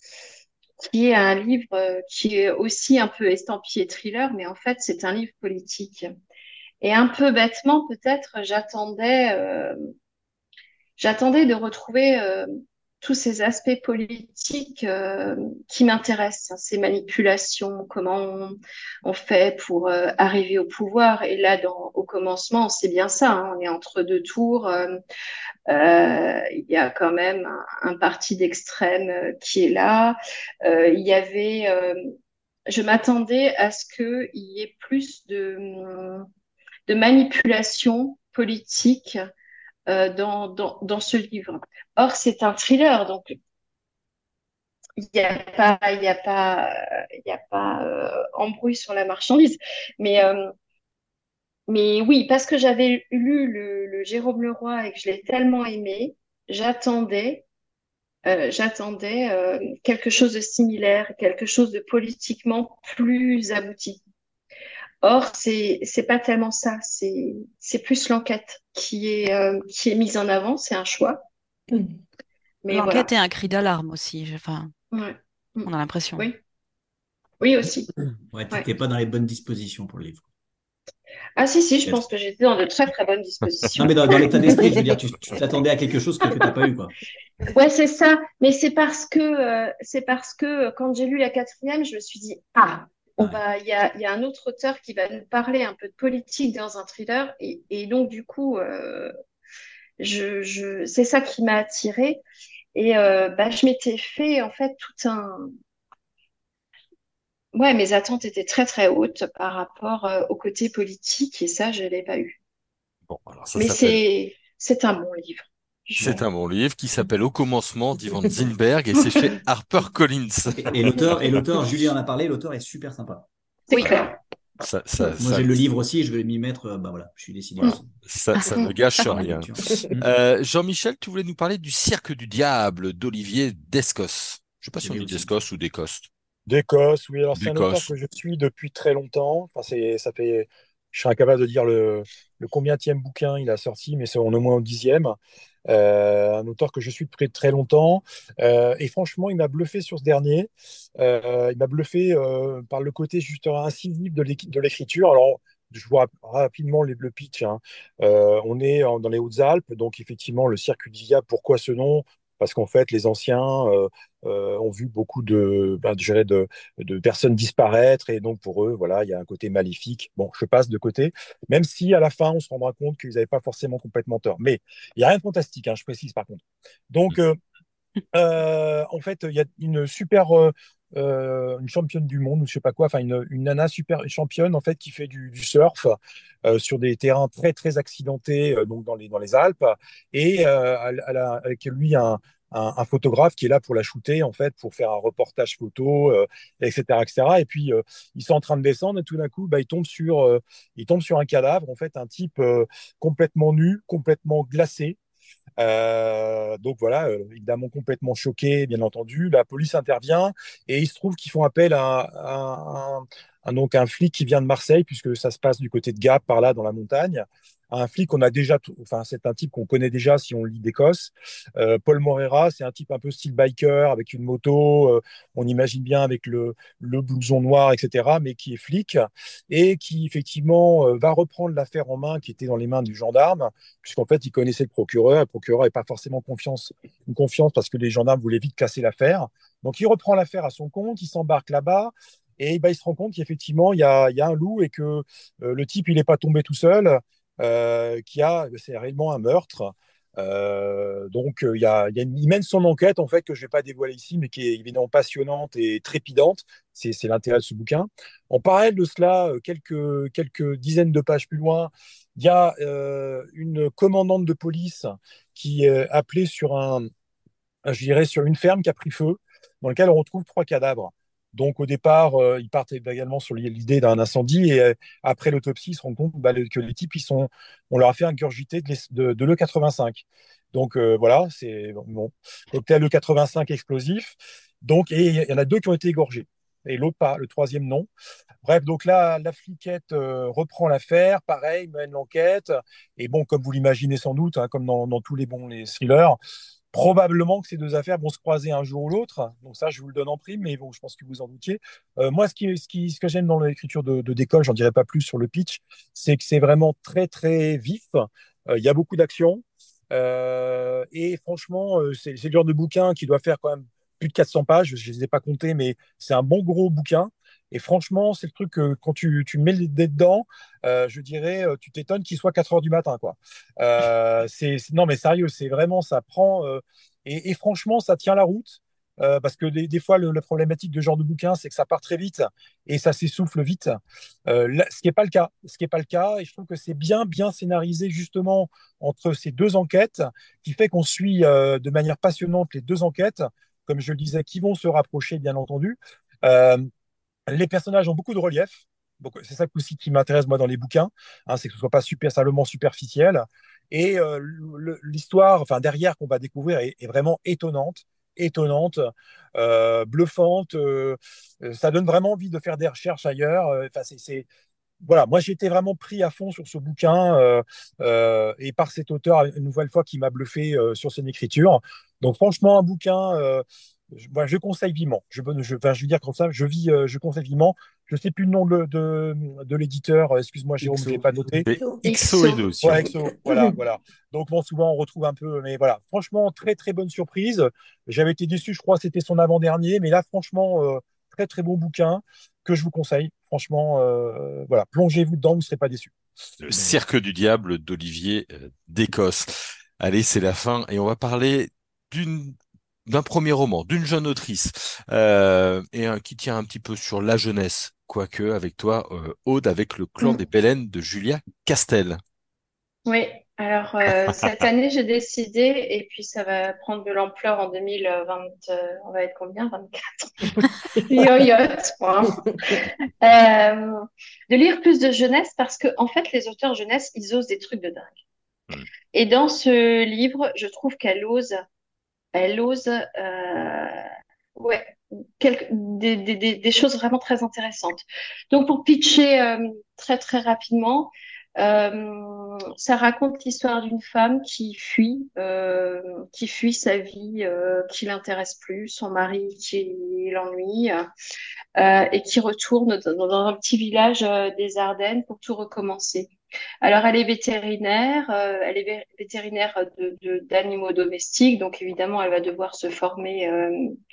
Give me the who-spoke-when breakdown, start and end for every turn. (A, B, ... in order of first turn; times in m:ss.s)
0:00.8-0:06.1 A
0:06.8-0:09.7 A
0:11.0-0:12.5 A
0:13.0-0:25.0 A
0:25.7-0:32.0 A
0:32.7-0:36.3 A
0:36.9-0:39.2 A
0:39.9-0:43.4 A
0:45.0-0:50.5 A
0:51.7-0:57.4 A
0:58.3-1:04.0 A
1:05.0-1:11.2 A
1:12.6-1:13.1 A
1:12.7-1:14.7 B
1:14.9-1:16.4 A
1:15.7-1:16.3 B
1:17.4-1:17.9 A
1:18.3-1:20.3 C
1:21.4-1:24.7 A
1:23.8-1:26.9 C
1:27.5-1:39.1 A
1:40.0-1:42.2 A
1:42.8-1:45.5 A
1:47.5-1:52.4 A
1:53.1-1:54.0 D
1:53.6-1:56.2 A
1:56.0-2:01.4 D
2:00.5-2:03.3 C
2:03.7-2:04.2 A
2:04.6-2:05.6 D
2:05.2-2:08.0 C
2:08.0-2:16.1 D
2:08.4-2:08.7 A
2:09.1-2:10.1 C
2:14.8-2:15.3 C
2:16.5-2:25.2 E
2:17.4-2:17.9 D
2:25.7-2:57.4 E
2:58.1-3:25.0 E
3:25.6-4:26.9 E
4:27.7-4:47.9 E
4:48.4-4:56.2 E
4:56.7-5:46.7 E
5:47.3-6:04.3 E
6:04.8-6:21.5 E
6:20.6-6:21.4 C
6:21.4-6:22.9 D
6:21.8-6:22.9 A
6:22.6-6:35.9 E
6:36.4-6:52.0 D
6:52.9-7:08.0 A
7:08.9-7:11.4 A
7:12.1-7:13.8 A
7:14.4-7:30.9 A
7:31.6-7:43.8 A